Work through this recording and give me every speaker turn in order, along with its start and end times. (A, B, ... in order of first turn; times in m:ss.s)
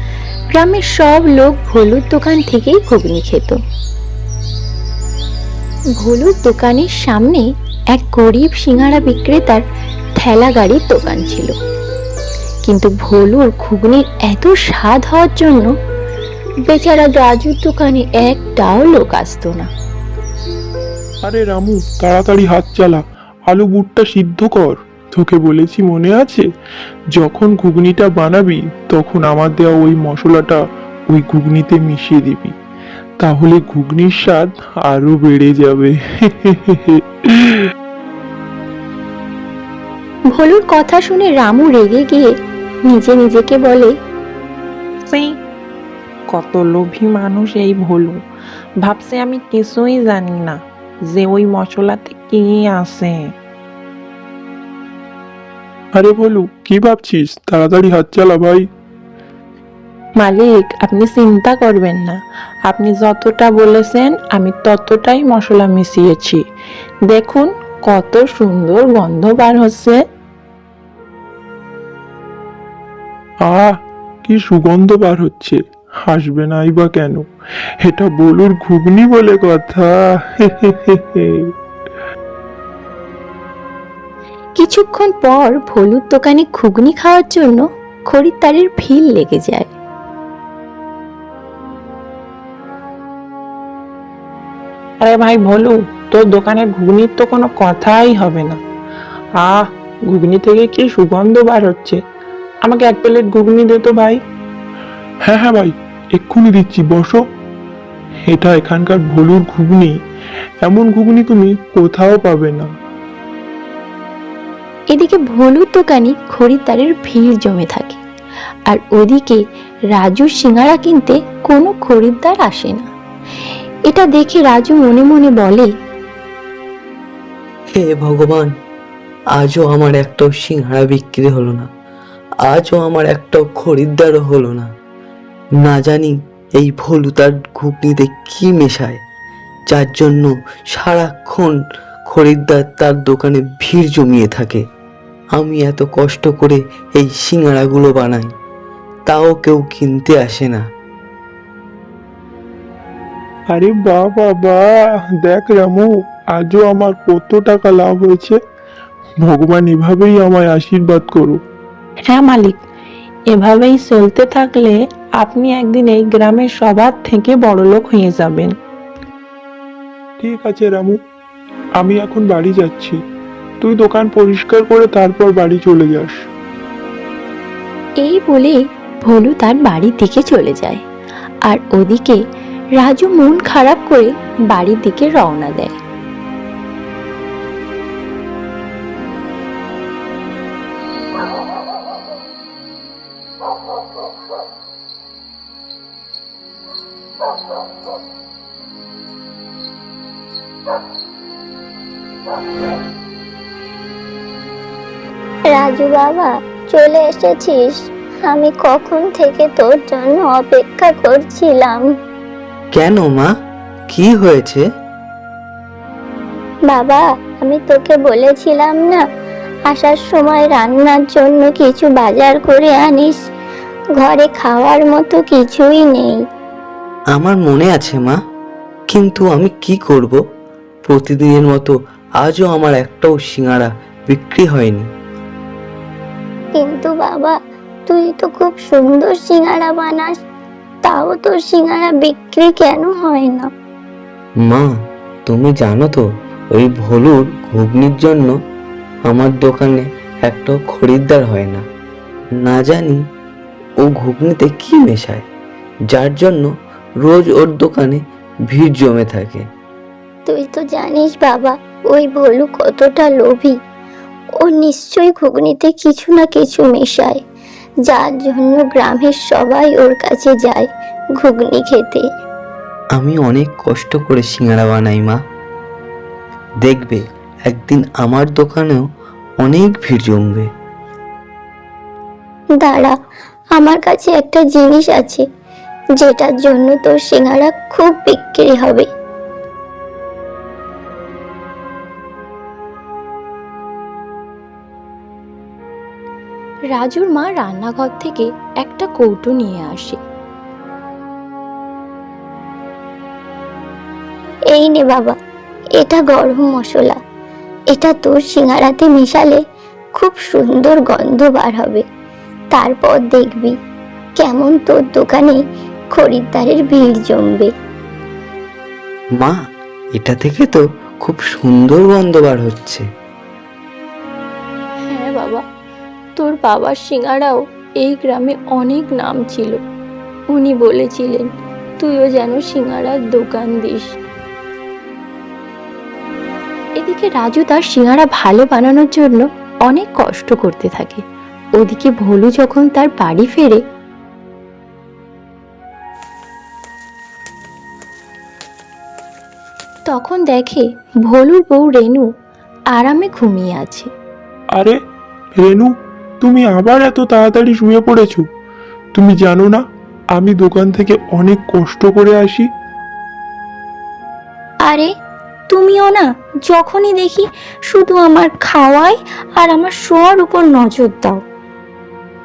0:00.5-0:03.6 A
0:06.0-0:09.6 A
0:10.2-0:11.5 A
0:12.6-0:15.7 A
0:16.7-0:19.7 A
0:21.2-0:26.4 B
0:27.1-0:32.5 B
0:33.2-0:37.6 B
0:40.3-0:42.3 A
0:42.9-0:43.9 A
0:45.1-0:45.4 C
0:46.3-0:48.2 C
0:48.8-0:50.6 C
0:51.1-0:53.2 C
0:55.9-0:58.6 B
1:00.2-1:06.4 C
1:07.1-1:10.0 C
1:13.5-1:17.2 B
1:17.8-1:21.5 B
1:24.6-1:29.7 A
1:35.0-1:38.6 C
1:39.4-1:42.0 C
1:42.6-1:44.2 C
1:45.2-1:47.2 B
1:48.3-1:50.0 B
1:50.6-1:52.7 B
1:54.9-1:58.0 A
1:58.7-1:59.4 A
1:59.9-2:02.9 A
2:03.9-2:05.7 A
2:07.8-2:08.5 D
2:09.4-2:11.7 D
2:12.5-2:14.7 D
2:15.6-2:19.0 D
2:19.7-2:21.6 D
2:22.1-2:24.6 D
2:25.3-2:28.3 D
2:29.1-2:30.6 D
2:33.5-2:38.4 B
2:39.2-2:41.4 B
2:42.1-2:42.6 C
2:43.3-2:48.5 C
2:50.2-2:51.0 B
2:51.8-2:53.0 B
2:53.6-2:56.2 B
2:58.0-3:00.8 A
3:01.5-3:02.2 A
3:02.8-3:05.8 A
3:25.5-3:31.8 E
3:32.7-3:33.3 D
3:33.9-3:34.6 D
3:36.7-3:39.0 E
3:39.7-3:43.1 E
3:44.0-3:46.2 E
3:47.1-3:48.2 D
3:48.9-3:50.2 D
3:50.9-3:54.9 D
3:56.6-3:57.3 E
3:57.9-4:00.2 E
4:00.8-4:03.5 E
4:04.4-4:04.7 D
4:05.3-4:08.3 D
4:09.1-4:11.6 D
4:12.4-4:13.0 D
4:13.8-4:15.2 D
4:15.9-4:16.5 D
4:17.0-4:19.4 D
4:20.2-4:23.5 E
4:24.4-4:27.2 E
4:27.9-4:30.6 E
4:31.2-4:32.0 E
4:32.9-4:35.2 D
4:36.6-4:38.8 D
4:39.4-4:40.5 D
4:42.6-4:42.9 E
4:43.6-4:45.2 E
4:46.0-4:48.8 E
4:56.7-5:00.0 A
5:04.5-5:05.1 E
5:05.8-5:06.9 E
5:07.7-5:09.4 E
5:10.0-5:11.8 E
5:12.5-5:13.5 E
5:14.2-5:15.4 E
5:15.9-5:17.5 E
5:20.0-5:22.8 D
5:24.9-5:25.4 A
5:26.2-5:29.6 A
5:30.3-5:31.3 A
5:31.8-5:34.0 A
5:36.8-5:41.0 A
5:41.6-5:43.6 A
5:49.9-5:52.1 A
5:52.7-5:53.9 A
5:55.4-5:58.2 B
5:58.9-5:59.6 B
6:00.1-6:02.5 B
6:04.6-6:04.9 A
6:05.5-6:11.2 A